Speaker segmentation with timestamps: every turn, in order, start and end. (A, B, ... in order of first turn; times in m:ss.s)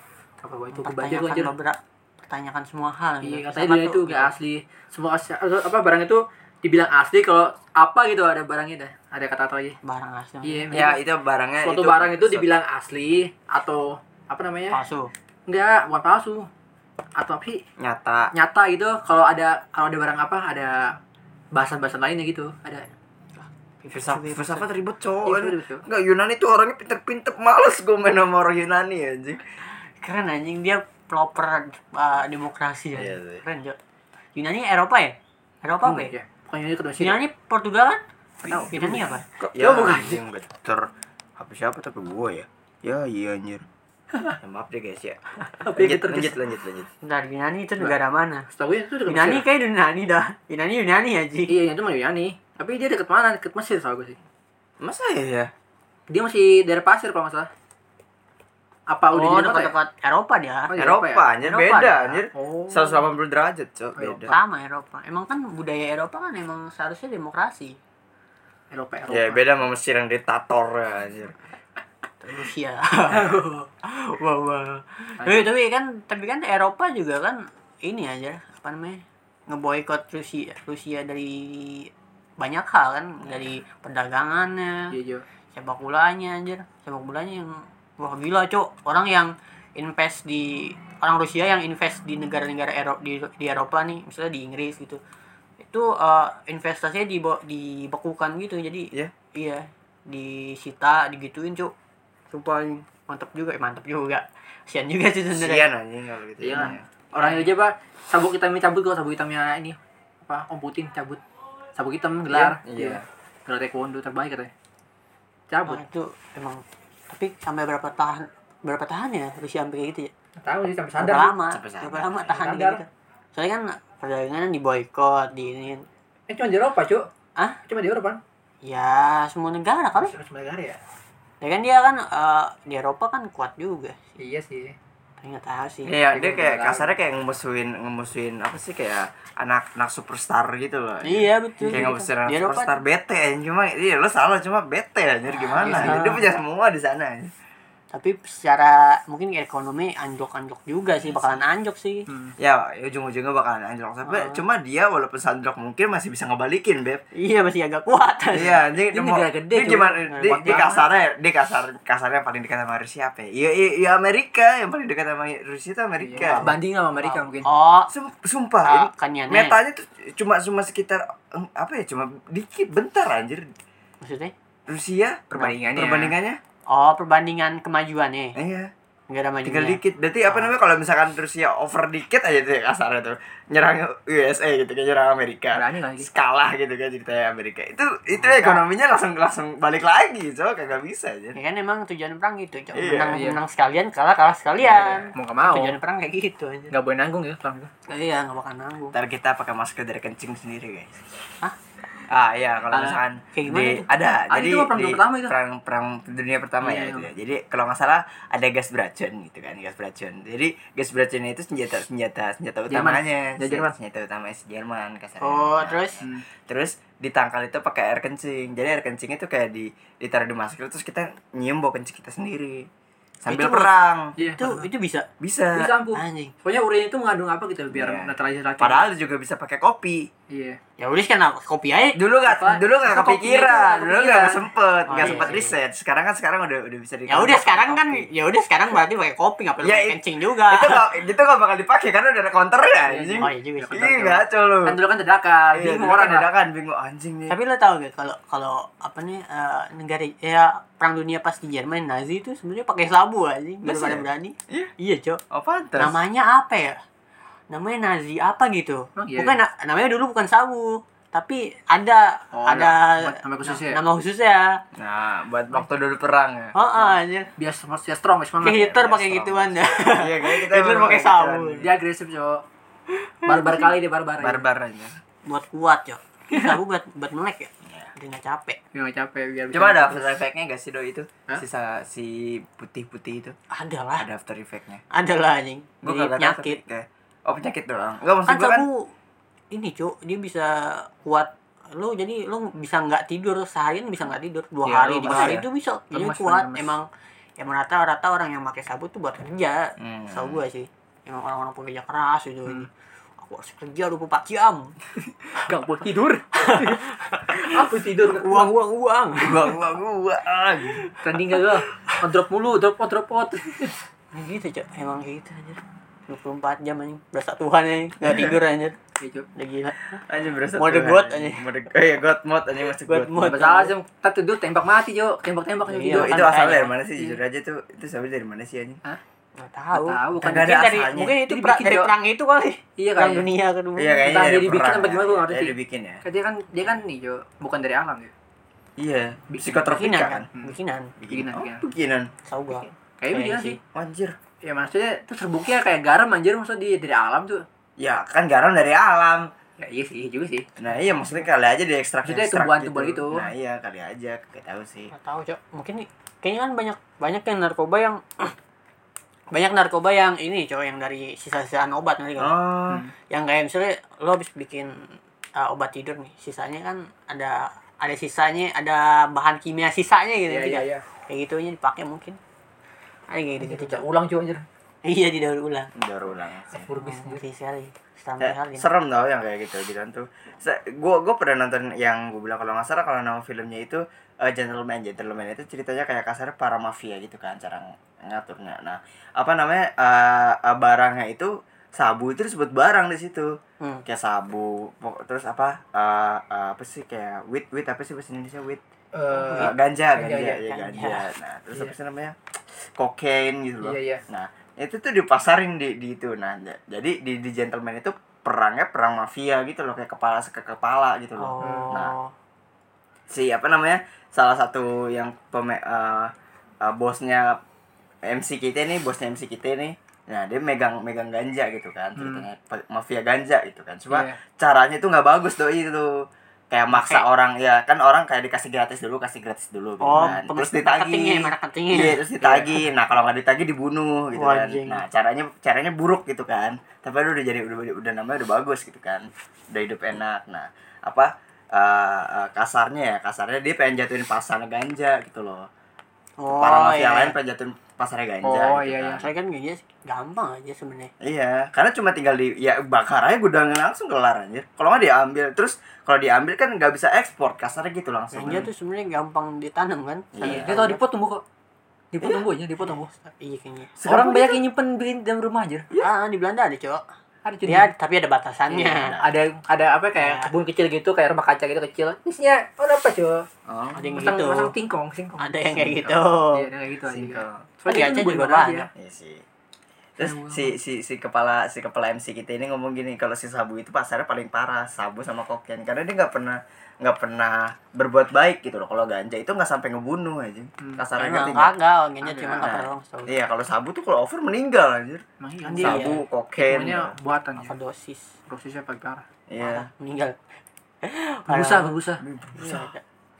0:00.4-0:01.5 A
0:00.7-0:04.3 B
0:03.2-0:09.8 A
0:09.8-0:10.7 B
0:10.4-0:11.0 A
0:10.7-0:12.5 C
0:11.6-0:14.8 A
0:14.7-0:15.1 B
0:15.5-0:16.5 A
0:17.2-0:17.6 A
0:17.8-0:18.3 C
0:18.3-0:21.0 A
0:21.5-0:22.8 A
0:23.4-0:24.7 B
0:23.9-0:29.4 C
0:25.2-0:25.8 A
0:30.0-0:33.8 B
0:32.9-0:33.4 C
0:34.3-0:36.1 B
0:35.8-0:37.2 A
0:37.0-0:38.0 B
0:38.4-0:40.2 A
0:38.5-0:38.7 C
0:38.7-0:39.2 B
0:39.2-0:43.6 C
0:44.4-0:46.9 C
0:45.6-0:46.4 A
0:47.0-0:48.5 B
0:48.5-0:49.4 A
0:49.1-0:51.5 B
0:51.5-0:54.2 A
0:54.8-0:55.5 C
0:56.1-0:57.5 A
0:58.9-0:59.7 A
0:59.1-1:00.7 B
1:00.7-1:01.2 A
1:00.8-1:04.3 C
1:01.4-1:02.2 B
1:02.3-1:03.0 A
1:04.0-1:04.4 A
1:04.3-1:07.8 B
1:08.7-1:09.4 A
1:09.1-1:11.3 C
1:12.2-1:24.9 B
1:15.2-1:15.5 A
1:24.9-1:25.2 A
1:25.5-1:35.0 B
1:35.6-1:41.7 B
1:42.3-1:45.7 B
1:45.3-1:47.4 C
1:46.4-1:51.2 A
1:51.8-1:54.5 A
1:52.3-1:53.0 C
1:55.5-1:55.8 A
1:55.7-2:00.1 B
2:00.4-2:01.3 A
2:01.0-2:05.8 B
2:01.5-2:02.3 C
2:02.3-2:02.8 A
2:06.3-2:07.0 A
2:07.6-2:08.2 A
2:08.6-2:10.1 B
2:09.9-2:10.8 A
2:11.4-2:14.0 B
2:14.2-2:14.7 A
2:15.2-2:15.9 B
2:15.8-2:27.3 C
2:16.1-2:16.9 A
2:21.0-2:22.7 B
2:21.6-2:21.9 A
2:25.3-2:26.2 B
2:25.6-2:26.1 A
2:27.9-2:32.0 B
2:31.0-2:31.3 C
2:32.1-2:32.3 A
2:32.4-2:37.0 C
2:34.0-2:34.4 B
2:37.2-2:38.6 B
2:38.3-2:46.5 C
2:38.9-2:40.8 A
2:40.1-2:40.6 B
2:46.0-2:47.5 A
2:46.2-2:46.5 B
2:47.0-2:47.9 B
2:47.9-2:53.5 C
2:48.6-2:49.6 B
2:54.0-2:54.3 B
2:54.7-2:56.4 C
2:55.3-2:56.1 A
2:56.7-2:58.4 B
2:58.4-2:58.7 C
2:59.1-3:00.5 B
2:59.4-3:11.4 C
3:05.5-3:06.1 A
3:08.2-3:08.5 B
3:11.3-3:16.7 B
3:12.7-3:13.2 C
3:13.1-3:13.4 A
3:14.6-3:15.0 C
3:15.1-3:15.7 A
3:16.7-3:17.7 A
3:17.9-3:18.9 B
3:18.9-3:21.0 C
3:22.1-3:42.7 C
3:22.7-3:23.0 A
3:23.3-3:23.9 B
3:24.3-3:25.3 A
3:26.6-3:27.1 A
3:32.7-3:33.7 A
3:35.2-3:36.0 B
3:43.2-3:44.1 C
3:43.2-3:45.1 B
3:44.2-3:44.6 A
3:45.2-3:45.7 C
3:45.5-3:48.9 A
3:45.9-3:46.3 B
3:47.7-3:50.1 C
3:50.3-3:50.6 A
3:50.8-3:52.0 B
3:52.0-3:58.1 C
3:52.3-3:54.4 A
3:54.9-3:55.5 B
3:55.0-3:55.4 A
3:57.1-4:00.8 B
3:59.6-4:04.8 C
4:02.7-4:06.3 A
4:03.2-4:04.0 B
4:05.5-4:07.4 C
4:07.3-4:15.2 B
4:13.6-4:14.7 C
4:15.3-4:16.0 C
4:15.8-4:16.8 B
4:17.5-4:24.5 B
4:19.0-4:19.4 A
4:22.3-4:23.8 A
4:24.8-4:26.8 C
4:26.5-4:27.3 B
4:27.4-4:28.7 A
4:28.4-4:31.6 B
4:28.5-4:31.7 C
4:31.6-4:32.4 A
4:33.2-4:34.4 A
4:33.2-4:33.7 B
4:34.2-4:35.0 C
4:35.2-4:38.6 B
4:36.3-4:36.6 A
4:37.6-4:37.9 C
4:38.7-4:40.1 A
4:39.5-4:43.4 C
4:43.5-4:44.1 B
4:44.0-4:44.8 C
4:44.9-4:46.6 B
4:45.8-4:48.6 C
4:48.2-4:48.9 B
4:49.5-4:56.8 B
4:54.6-4:56.7 A
4:55.1-4:55.4 C
4:57.4-5:04.7 B
4:59.8-5:00.4 C
5:05.4-5:06.8 A
5:06.4-5:09.6 B
5:07.3-5:08.5 A
5:09.2-5:10.8 C
5:11.0-5:13.7 A
5:14.1-5:18.8 B
5:18.0-5:18.4 C
5:19.0-5:19.3 A
5:19.4-5:19.8 B
5:20.0-5:23.4 C
5:20.6-5:21.4 B
5:22.9-5:23.7 B
5:23.2-5:26.3 A
5:25.7-5:26.7 B
5:25.9-5:28.8 C
5:29.4-5:34.1 B
5:29.7-5:30.6 A
5:30.2-5:31.2 C
5:31.2-5:31.9 A
5:32.8-5:33.3 A
5:33.8-5:36.0 C
5:34.0-5:38.1 A
5:38.8-5:40.3 C
5:39.3-5:39.6 A
5:39.6-5:40.9 B
5:41.0-5:42.1 C
5:41.1-5:41.7 A
5:42.2-5:43.6 B
5:42.5-5:43.6 A
5:43.7-5:44.1 C
5:44.4-5:47.4 A
5:47.8-5:49.3 C
5:49.6-5:50.5 A
5:50.6-5:54.9 C
5:52.0-5:53.3 A
5:54.9-5:58.3 B
5:59.3-6:02.3 B
6:02.2-6:02.8 C
6:03.1-6:12.2 B
6:10.3-6:10.8 A
6:13.1-6:13.8 B
6:13.4-6:14.4 A
6:14.8-6:15.7 B
6:15.8-6:16.7 C
6:16.5-6:17.2 A
6:16.8-6:18.6 B
6:18.2-6:33.3 C
6:33.8-6:38.6 C
6:38.9-6:40.4 A
6:39.1-6:39.5 B
6:39.1-6:42.2 C
6:40.4-6:41.0 B
6:42.8-6:51.9 C
6:43.6-6:44.0 A
6:51.2-6:52.1 B
6:51.4-6:51.7 A
6:53.1-6:56.1 C
6:56.6-6:57.4 C
6:58.0-7:05.9 C
7:02.0-7:02.2 A
7:03.9-7:04.2 A
7:06.5-7:25.5 C
7:06.7-7:07.0 B
7:09.8-7:12.0 B
7:12.2-7:12.6 A
7:14.1-7:14.8 B
7:26.2-7:27.1 B
7:26.3-7:29.0 C
7:28.2-7:29.0 A
7:29.0-7:30.9 B
7:31.0-7:38.5 C
7:38.1-7:40.8 B
7:40.1-7:40.6 C
7:40.2-7:41.2 A
7:41.9-7:42.9 A
7:43.0-7:43.7 B
7:43.8-7:44.4 C
7:43.8-7:45.6 A
7:45.8-7:46.8 B
7:47.2-7:47.7 A
7:47.4-7:49.0 B
7:48.5-7:49.1 C
7:48.5-7:53.2 A
7:50.0-7:50.3 B
7:53.5-7:54.0 C
7:53.7-7:54.5 B
7:53.9-7:58.7 A
7:55.2-7:56.5 B
7:56.9-7:57.4 C
7:57.7-7:58.7 B
7:58.8-7:59.2 C
8:00.0-8:11.5 C
8:00.0-8:00.5 A
8:10.6-8:10.8 A
8:11.0-8:13.1 B
8:12.0-8:12.5 A
8:12.4-8:15.0 C
8:15.2-8:17.5 A
8:15.4-8:16.0 B
8:15.6-8:16.9 C
8:17.4-8:18.1 B
8:18.3-8:19.0 A
8:19.3-8:19.7 C
8:19.4-8:20.2 B
8:20.8-8:21.7 B
8:21.3-8:22.0 A
8:22.0-8:22.7 C
8:22.4-8:22.8 B